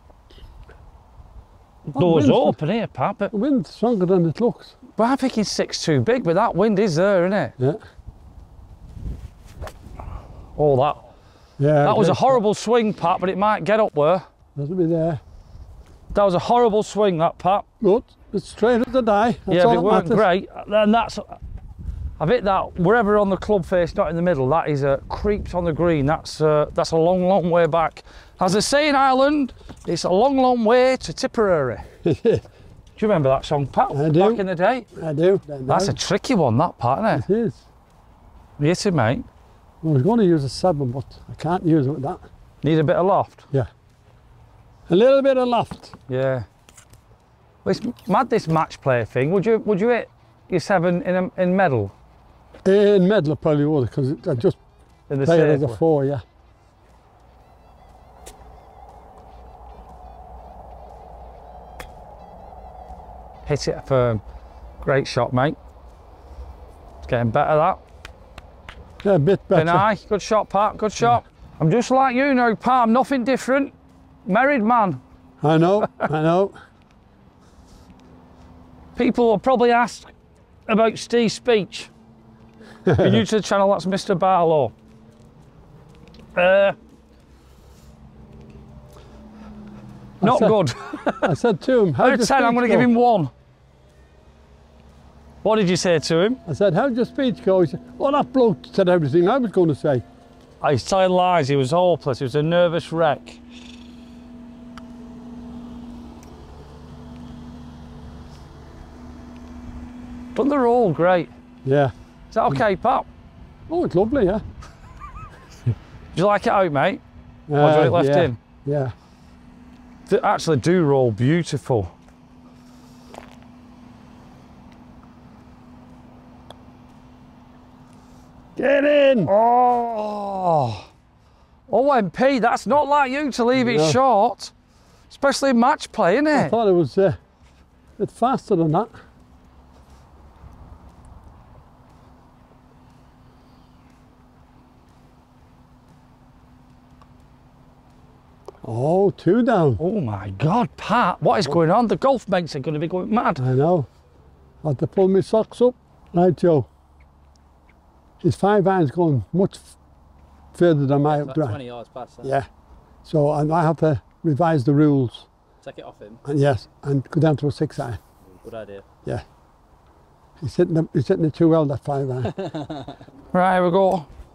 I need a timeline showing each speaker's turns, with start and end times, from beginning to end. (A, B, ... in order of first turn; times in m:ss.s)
0:01.9-0:03.3 A
0:01.9-0:02.6 B
0:03.3-0:04.8 B
0:05.0-0:07.6 A
0:10.6-0:11.0 A
0:11.6-0:12.4 B
0:11.8-0:14.3 A
0:14.6-0:15.2 B
0:16.1-0:17.7 A
0:17.8-0:20.2 B
0:19.5-0:21.4 A
0:22.2-0:31.9 A
0:32.0-0:32.4 B
0:33.0-0:34.9 A
0:33.9-0:34.4 B
0:35.0-0:36.0 B
0:35.7-0:37.2 A
0:37.1-0:37.6 B
0:38.6-0:39.3 A
0:39.8-0:42.2 B
0:42.6-0:43.5 A
0:44.9-0:46.0 B
0:46.1-0:46.5 A
0:47.6-0:51.9 A
0:52.6-0:54.6 B
0:55.1-0:55.8 A
0:55.2-0:56.2 B
1:03.5-1:04.2 A
1:04.8-1:05.6 A
1:07.0-1:07.8 A
1:09.0-1:09.9 B
1:09.5-1:13.7 A
1:14.3-1:15.0 A
1:15.4-1:16.6 B
1:19.0-1:20.1 A
1:20.7-1:21.9 A
1:22.8-1:23.2 B
1:23.0-1:24.7 A
1:26.4-1:26.8 A
1:30.2-1:30.6 B
1:30.2-1:31.4 A
1:31.2-1:32.9 B
1:32.0-1:33.3 A
1:35.4-1:36.4 A
1:36.5-1:40.0 B
1:40.6-1:43.4 A
1:50.4-1:51.3 A
1:51.6-1:51.9 B
1:52.3-1:53.1 A
1:53.7-1:54.4 B
1:56.1-1:57.0 A
1:57.5-1:58.9 B
1:57.6-1:58.4 A
2:00.1-2:01.9 A
2:08.6-2:09.3 B
2:09.3-2:10.9 A
2:11.7-2:14.5 A
2:13.6-2:14.0 B
2:15.1-2:16.6 A
2:16.3-2:17.2 B
2:18.0-2:18.9 B
2:28.6-2:29.8 B
2:29.8-2:33.4 A
2:33.4-2:33.9 B
2:34.6-2:36.7 B
2:38.2-2:39.7 B
2:40.5-2:41.6 B
2:41.1-2:42.3 C
2:42.2-2:42.5 B
2:43.0-2:45.3 B
2:45.6-2:46.2 C
2:46.3-2:48.0 B
2:48.3-2:48.8 C
2:50.4-2:52.4 B
2:52.4-2:53.0 C
2:53.3-2:54.1 A